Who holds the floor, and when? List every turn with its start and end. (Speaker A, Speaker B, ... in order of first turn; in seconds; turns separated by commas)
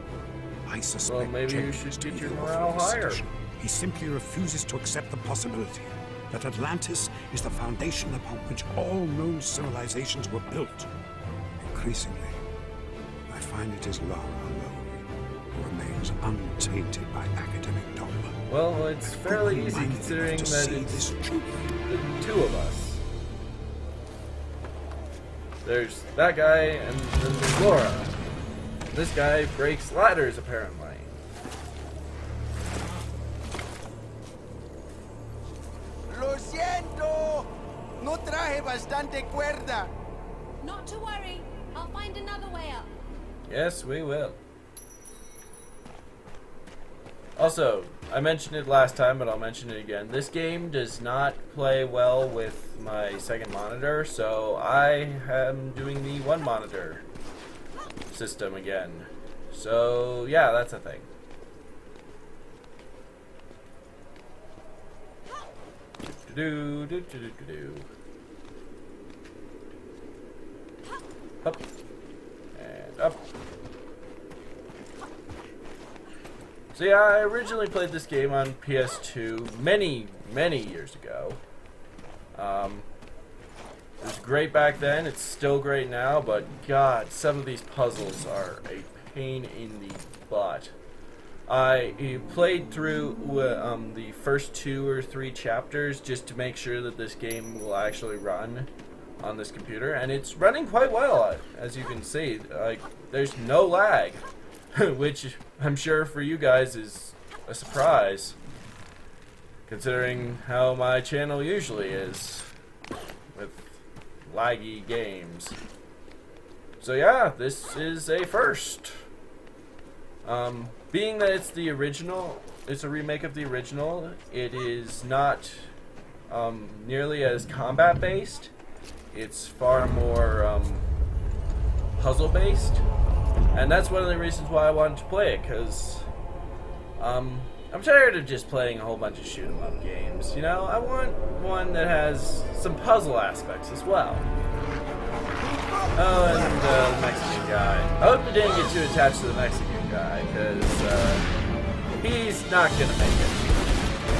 Speaker A: 0.7-10.9, Speaker B: 1.0-3.2, Speaker A: 11.6-12.4, Speaker A: 13.3-18.4, Speaker B: 18.5-21.1, Speaker A: 19.0-21.8, Speaker B: 21.9-23.0, Speaker B: 25.6-28.1, Speaker B: 28.9-31.1, Speaker C: 36.1-37.5, Speaker C: 38.0-39.9, Speaker D: 40.6-42.9, Speaker B: 43.5-44.4, Speaker B: 47.4-57.0, Speaker B: 58.1-61.1, Speaker B: 66.0-67.9, Speaker B: 72.5-73.3, Speaker B: 76.7-81.4, Speaker B: 82.3-82.9, Speaker B: 84.0-90.7, Speaker B: 91.5-108.4, Speaker B: 109.7-112.5, Speaker B: 113.3-115.6, Speaker B: 116.8-119.0, Speaker B: 120.2-125.7, Speaker B: 126.3-128.5, Speaker B: 129.1-130.9, Speaker B: 132.0-132.8, Speaker B: 133.5-136.1, Speaker B: 137.0-144.3, Speaker B: 145.9-151.3, Speaker B: 152.0-153.6